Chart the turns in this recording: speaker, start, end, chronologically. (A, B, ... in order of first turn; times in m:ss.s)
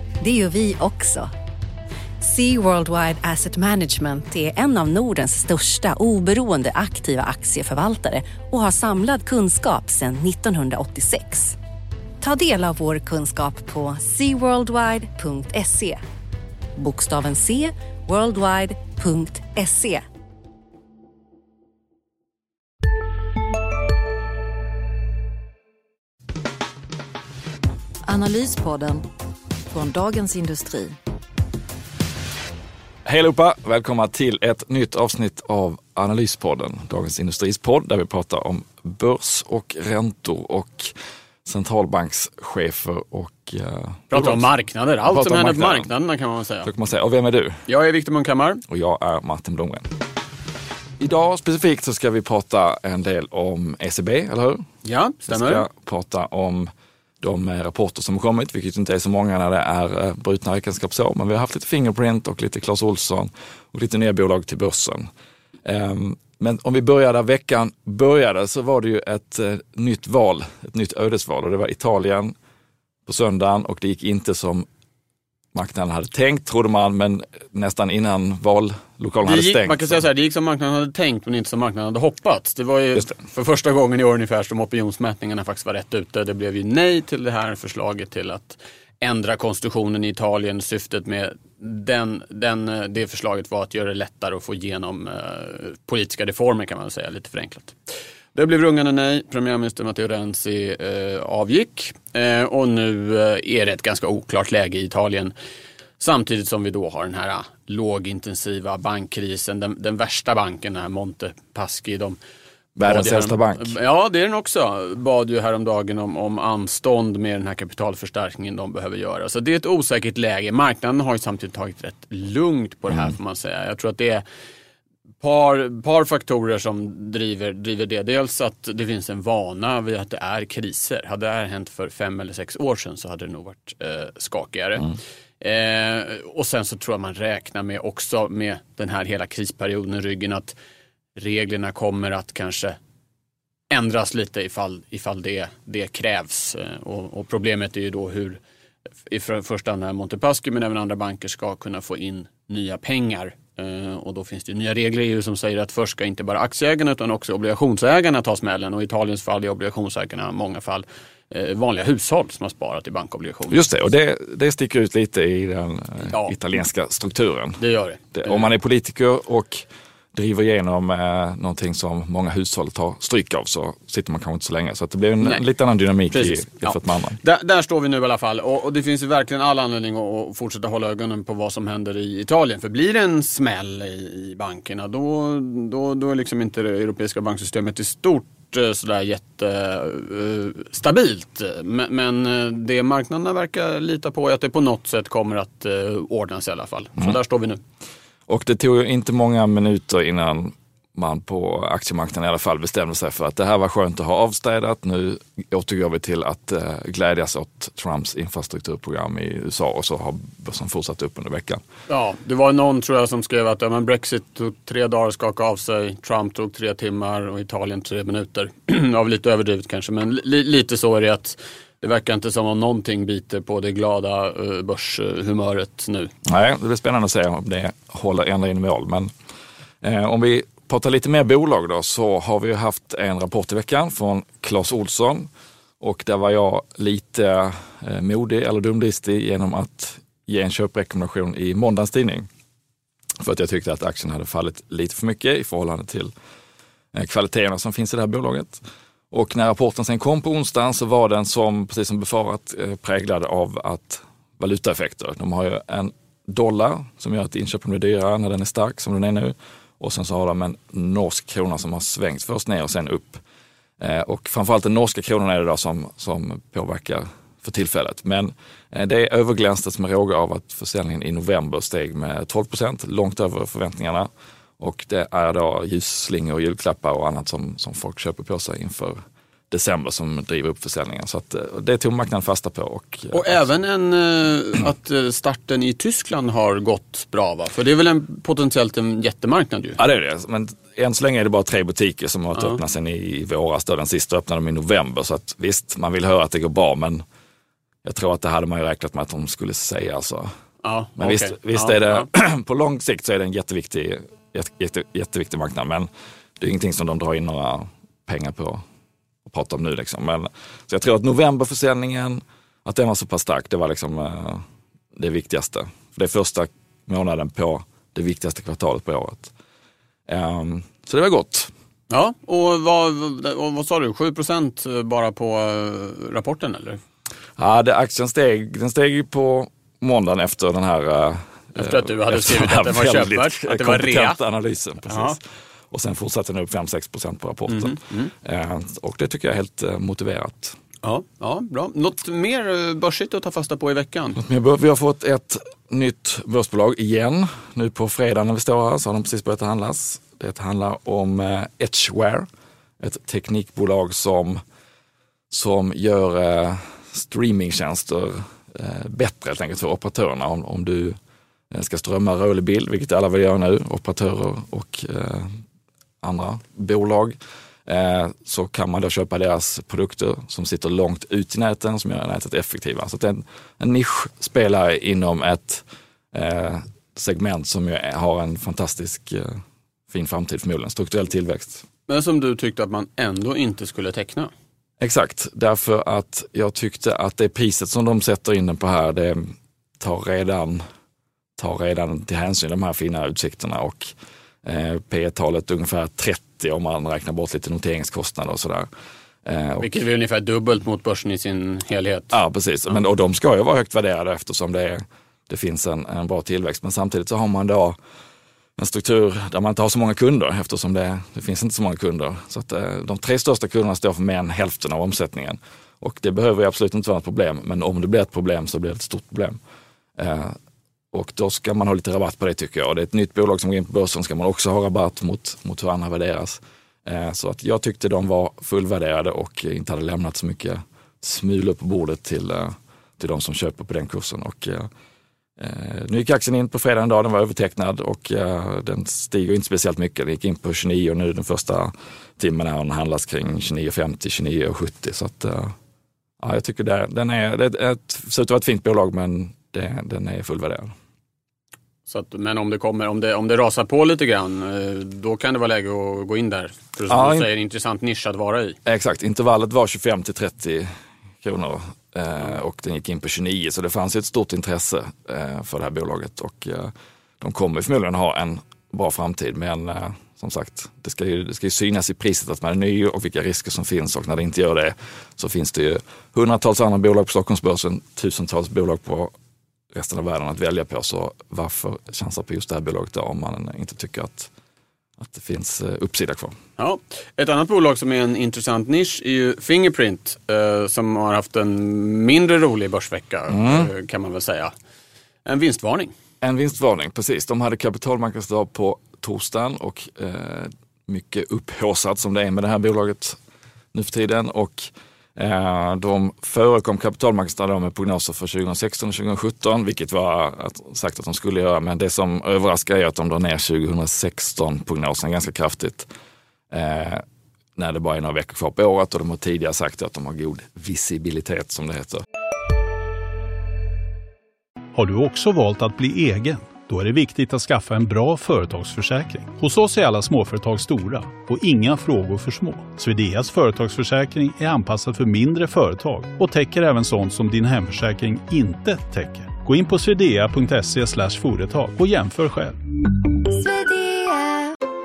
0:00.2-0:01.3 A
0:02.2-0:11.6 A
0:12.2-0:16.0 A
0:16.8-0:20.0 A
0:28.0-0:29.0 B
0:29.7-0:30.9 B
0:33.0-0:40.9 C
0:41.4-0:44.4 C
0:44.1-0:46.7 D
0:45.1-0:45.9 C
0:46.6-0:47.6 C
0:47.7-0:48.6 D
0:48.7-0:49.9 C
0:51.0-0:54.6 C
0:54.8-0:55.6 D
0:55.3-0:56.7 C
0:57.2-1:05.1 C
1:05.6-1:12.3 C
1:13.0-1:14.6 C
1:15.5-1:20.0 C
1:19.2-1:37.8 D
1:38.3-1:45.3 D
1:46.0-1:52.2 D
1:52.8-1:53.7 C
1:52.8-2:04.2 D
2:05.2-2:20.5 D
2:21.2-2:22.8 D
2:23.7-2:28.4 D
2:29.1-2:43.6 D
2:43.5-2:47.6 C
2:46.0-2:46.4 D
2:47.6-2:48.5 D
2:48.1-2:57.2 C
2:56.1-3:17.6 D
3:18.3-3:31.6 C
3:31.9-3:46.1 D
3:46.3-3:49.1 C
3:49.8-3:55.3 C
3:55.8-4:02.3 C
4:03.2-4:06.1 C
4:06.9-4:23.2 C
4:23.8-4:34.1 C
4:34.6-4:39.0 C
4:39.5-4:43.4 C
4:43.1-4:49.8 D
4:49.8-4:57.0 C
4:52.3-4:52.6 D
4:57.8-5:00.3 C
5:00.6-5:02.1 D
5:01.0-5:05.9 C
5:06.4-5:08.6 C
5:09.2-5:14.4 C
5:15.0-5:19.3 C
5:20.1-5:21.5 C
5:21.9-5:26.8 D
5:27.4-5:35.2 C
5:31.5-5:34.2 D
5:34.9-5:35.2 D
5:35.7-5:40.6 C
5:37.5-5:38.1 D
5:40.8-5:44.2 D
5:44.2-5:52.2 C
5:52.8-5:54.4 C
5:55.3-6:01.0 C
6:01.5-6:05.3 C
6:06.0-6:19.3 C
6:19.9-6:21.6 C
6:21.9-6:24.3 D
6:24.8-6:29.2 C
6:29.8-6:30.6 C
6:31.4-6:33.9 C
6:34.4-6:38.7 C
6:39.2-6:39.7 C
6:39.6-6:42.1 D
6:42.1-6:47.8 C
6:48.6-6:59.4 C
7:00.0-7:00.3 C
7:00.9-7:14.7 C
7:15.4-7:25.5 C
7:26.2-7:30.7 C
7:31.9-7:38.6 D
7:36.9-7:37.3 C
7:38.6-7:40.7 C
7:41.2-7:59.1 C
7:59.7-8:04.3 C
8:05.0-8:06.3 C
8:06.6-8:14.5 D
8:13.3-8:13.7 C
8:15.2-8:15.9 D
8:16.2-8:23.2 C
8:23.7-8:35.9 C
8:36.5-8:37.0 C
8:37.6-8:42.0 C
8:44.8-9:02.5 E
9:03.4-9:04.4 A